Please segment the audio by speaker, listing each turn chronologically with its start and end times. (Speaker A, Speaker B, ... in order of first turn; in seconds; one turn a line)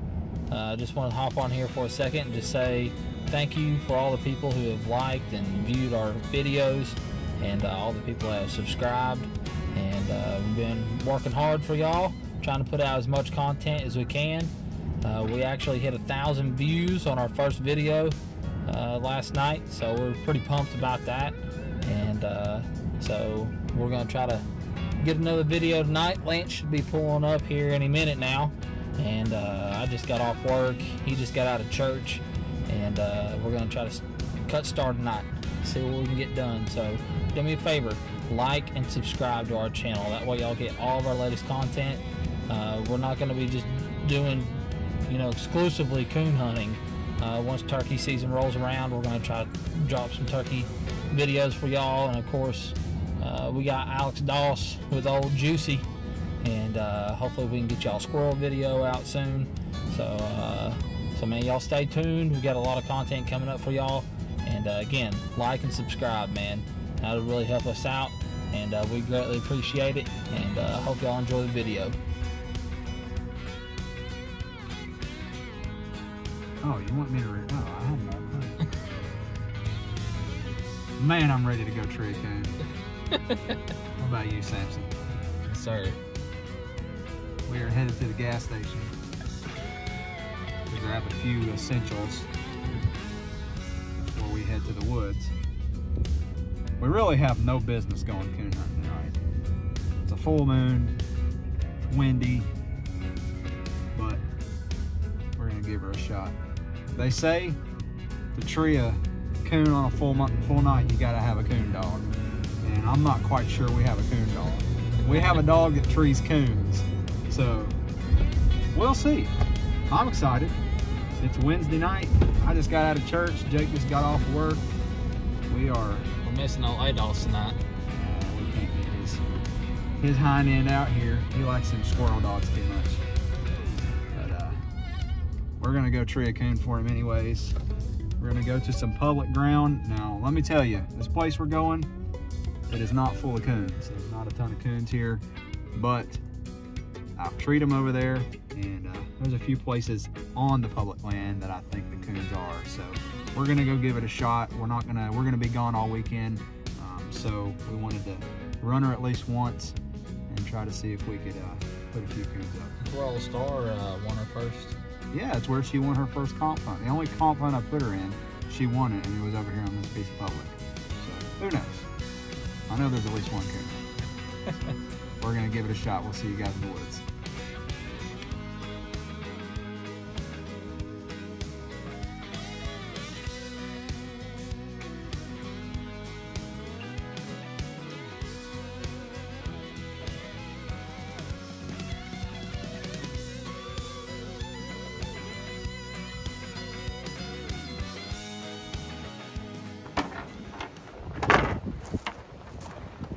Speaker A: 0.5-24.4
Speaker A: 25.0-55.9
Speaker A: 56.4-72.0
Speaker B: 76.6-78.6
Speaker B: 81.0-82.6
Speaker A: 83.1-83.6
Speaker B: 84.0-84.9
Speaker A: 85.5-86.0
Speaker B: 87.5-88.9
Speaker B: 90.7-92.3
Speaker B: 94.1-95.3
Speaker B: 96.8-99.2
Speaker B: 100.0-101.0
Speaker B: 101.9-102.5
Speaker B: 103.9-104.2
Speaker B: 105.4-106.4
Speaker B: 107.0-107.6
Speaker B: 108.3-117.8
Speaker B: 118.7-119.3
Speaker B: 119.9-120.6
Speaker B: 121.2-124.6
Speaker B: 125.5-126.1
Speaker A: 126.2-127.6
Speaker B: 127.9-129.2
Speaker B: 130.0-133.0
Speaker B: 134.1-134.6
Speaker B: 135.6-137.6
Speaker B: 138.2-141.9
Speaker B: 142.7-145.2
Speaker B: 145.7-146.2
Speaker B: 147.2-159.8
Speaker B: 160.3-162.8
Speaker A: 162.8-164.8
Speaker B: 165.1-171.9
Speaker B: 172.7-173.8
Speaker B: 175.2-177.0